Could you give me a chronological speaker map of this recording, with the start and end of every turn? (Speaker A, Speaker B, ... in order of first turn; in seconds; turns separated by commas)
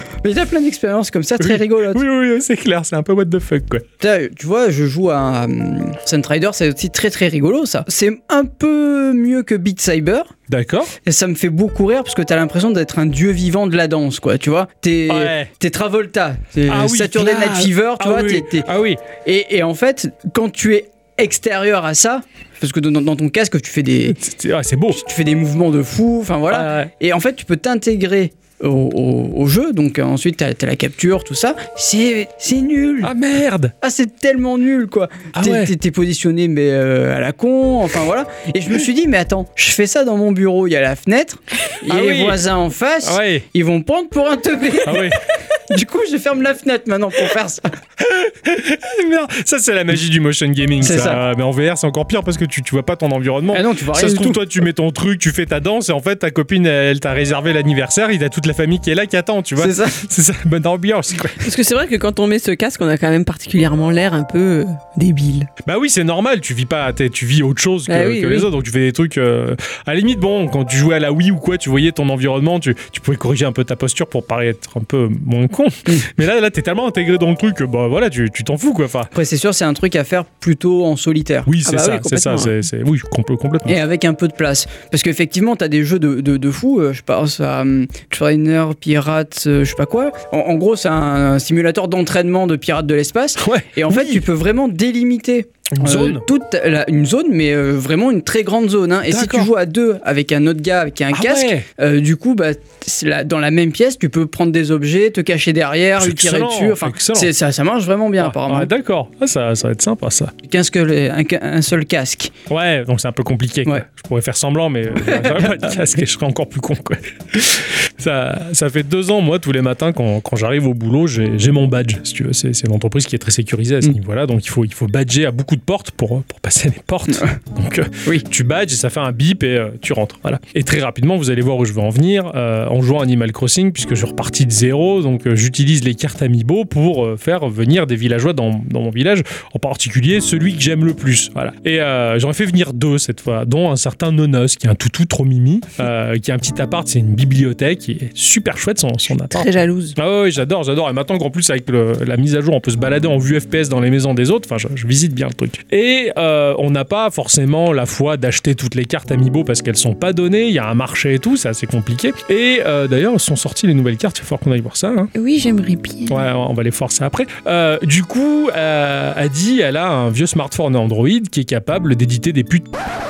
Speaker A: 0.2-2.0, Speaker B: 1.4-3.9, Speaker A: 4.0-10.3, Speaker B: 10.5-10.9, Speaker A: 11.1-24.2, Speaker B: 15.1-15.5, Speaker B: 16.7-19.0, Speaker B: 24.1-25.0, Speaker A: 24.9-33.1, Speaker B: 26.5-26.9, Speaker B: 33.0-33.8, Speaker A: 33.8-47.8, Speaker B: 35.4-35.7, Speaker B: 41.9-42.4, Speaker B: 43.0-43.5, Speaker B: 44.9-45.3, Speaker B: 48.0-61.5, Speaker A: 50.8-51.2, Speaker A: 53.5-54.4, Speaker A: 59.6-60.0, Speaker C: 61.4-65.5, Speaker B: 65.6-79.1, Speaker C: 67.9-68.5, Speaker A: 79.1-81.5, Speaker B: 81.5-83.8, Speaker C: 81.7-82.5, Speaker A: 83.7-108.7, Speaker B: 93.4-94.2, Speaker B: 95.7-96.3, Speaker B: 99.1-99.5, Speaker B: 101.1-101.7, Speaker B: 106.0-107.3, Speaker B: 108.2-110.3, Speaker A: 110.4-112.3, Speaker B: 112.5-165.1, Speaker A: 115.1-115.6, Speaker C: 149.3-150.0, Speaker C: 165.2-166.2, Speaker B: 166.1-172.7